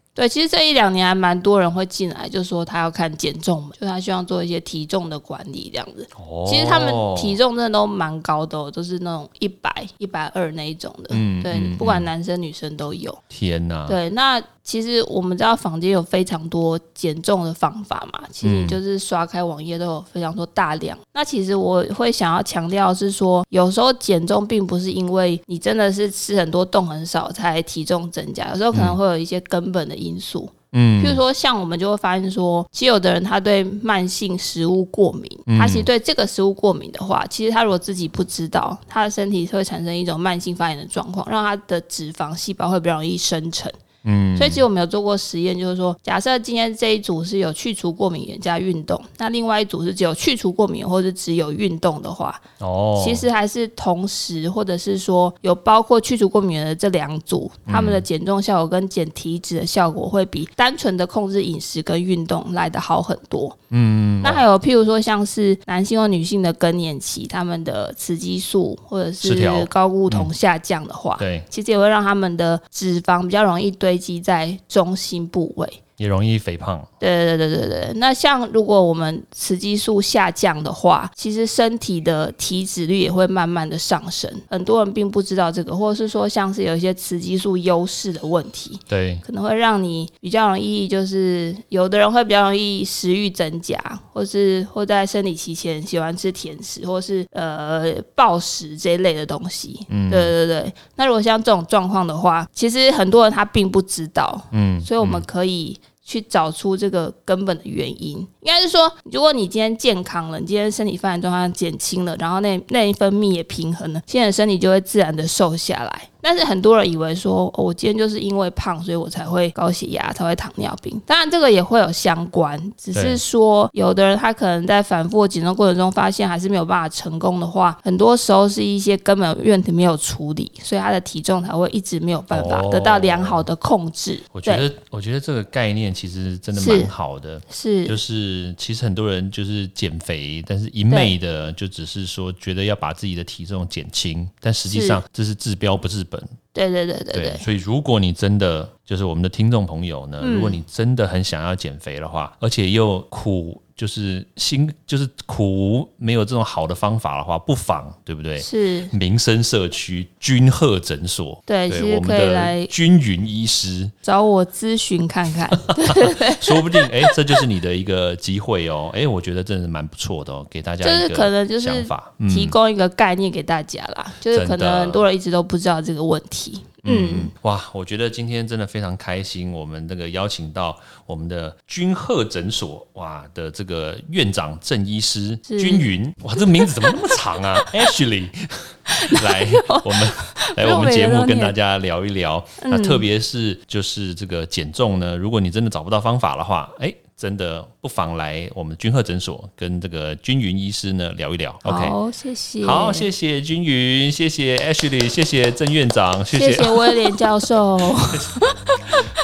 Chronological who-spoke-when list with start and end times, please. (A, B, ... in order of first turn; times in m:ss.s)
0:00.2-0:13.2 A
0:06.2-0:07.4 B
0:11.1-0:12.1 B
0:13.3-0:14.0 B
0:13.9-0:43.7 A
0:18.4-0:18.8 B
0:28.7-0:29.0 B
0:30.7-0:31.2 B
0:35.5-0:35.9 B
0:44.0-0:44.6 B
0:44.4-0:52.4 A
0:52.6-0:53.3 B
0:53.0-1:03.6 A
0:57.7-0:58.1 B
1:03.7-1:04.4 B
1:04.2-1:15.8 A
1:09.2-1:10.3 B
1:11.2-1:11.5 B
1:16.0-1:16.9 B
1:17.0-2:14.7 A
1:28.9-1:29.2 B
1:39.9-1:40.3 B
1:44.5-1:45.2 B
2:02.9-2:03.2 B
2:12.3-2:13.4 B
2:14.3-2:26.4 B
2:16.5-2:16.9 A
2:17.5-2:18.0 A
2:20.9-2:21.2 A
2:24.7-2:25.0 A
2:26.6-2:27.5 A
2:27.1-2:43.9 B
2:30.2-2:30.6 A
2:38.4-2:38.9 A
2:41.5-2:42.7 A
2:44.0-2:47.1 A
2:46.1-2:52.6 B
2:50.8-2:57.3 A
2:54.3-2:55.0 B
2:56.8-3:22.0 B
3:05.5-3:07.6 A
3:08.9-3:11.6 A
3:12.6-3:13.0 A
3:21.6-3:23.1 A
3:22.6-3:27.2 B
3:26.3-3:28.8 A